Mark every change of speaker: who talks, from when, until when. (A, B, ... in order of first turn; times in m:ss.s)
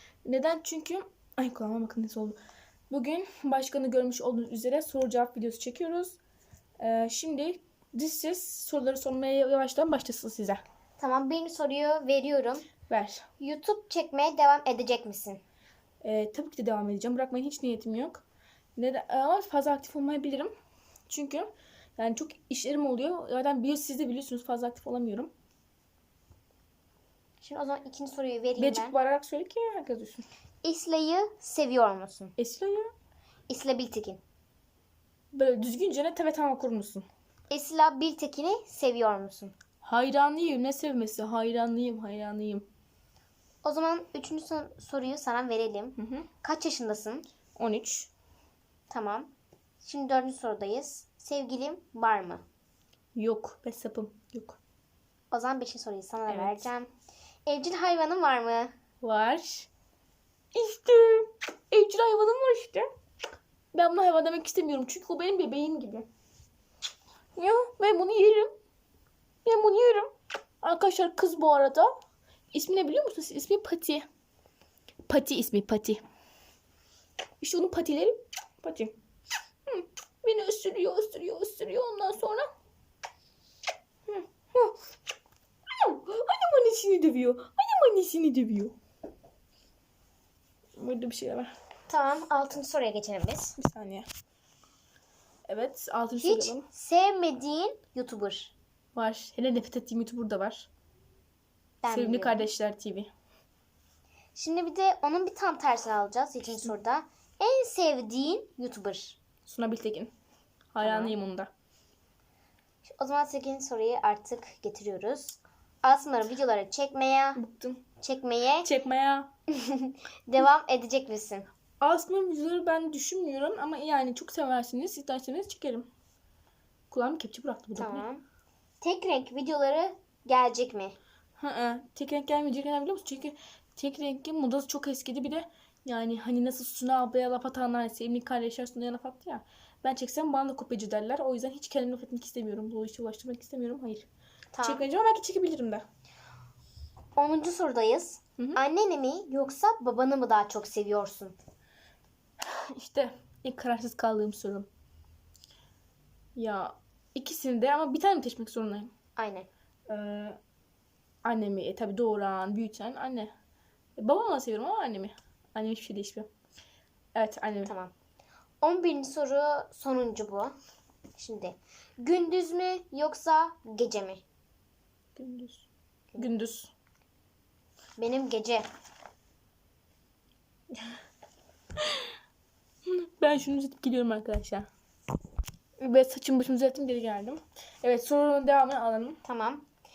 0:00.2-0:02.4 A
0:02.9-0:06.2 A
0:06.8-0:10.6 A
0:11.0-0:12.7 B
0:12.9-0:13.3 A
0:13.4-0:15.4 B
0:16.0-0:18.2 A
0:18.8-0:20.5 A
0:21.1-0:25.3 A
0:27.4-0:29.0 B
0:28.6-0:30.2 A
0:30.6-0:32.3 B
0:32.4-0:32.9 A
0:33.5-0:34.2 B
0:35.3-0:37.0 A
0:37.5-0:39.5 B
0:39.8-0:42.6 A
0:43.6-0:47.2 B
0:46.0-0:46.3 A
0:47.6-0:48.1 A
0:48.9-0:52.4 B
0:53.1-0:54.6 A
0:55.3-0:56.9 B
0:56.3-0:56.7 A
0:57.4-0:58.7 B
0:59.0-0:59.7 A
1:00.5-1:02.9 A
1:03.7-1:06.1 A
1:07.4-1:08.5 A
1:09.4-1:10.1 A
1:10.6-1:11.9 A
1:12.5-1:14.0 A
1:15.1-1:16.0 A
1:17.4-1:18.9 A
1:19.7-1:22.5 A
1:24.1-1:24.7 A
1:25.7-1:28.8 A
1:30.8-1:31.5 A
1:31.9-1:33.6 B
1:33.6-1:34.1 A
1:35.5-1:36.6 A
1:36.2-1:38.5 B
1:38.9-1:40.7 A
1:41.8-1:42.5 B
1:41.9-1:43.1 A
1:44.4-1:49.2 B
1:49.4-1:50.1 A
1:50.7-1:51.5 A
1:50.8-1:51.1 B
1:52.8-1:57.4 B
1:57.4-1:57.8 A
1:58.0-1:58.7 B
1:58.6-1:59.3 A
1:59.5-2:01.5 B
2:01.8-2:05.9 A
2:06.9-2:08.0 A
2:07.8-2:08.2 B
2:08.8-2:11.0 B
2:11.4-2:24.1 A
2:24.5-2:24.8 B
2:24.6-2:25.8 A
2:27.2-2:31.4 B
2:32.4-2:34.7 A
2:36.4-2:38.9 A
2:39.2-2:39.5 B
2:39.9-2:40.4 A
2:41.2-2:43.3 A
2:44.0-2:46.3 A
2:47.1-2:47.7 A
2:47.6-2:47.9 B
2:48.6-2:50.6 B
2:51.1-2:54.2 B
2:55.2-2:56.7 A
2:58.0-2:58.7 B
3:02.9-3:04.7 A
3:05.8-3:09.2 A
3:09.2-3:09.6 B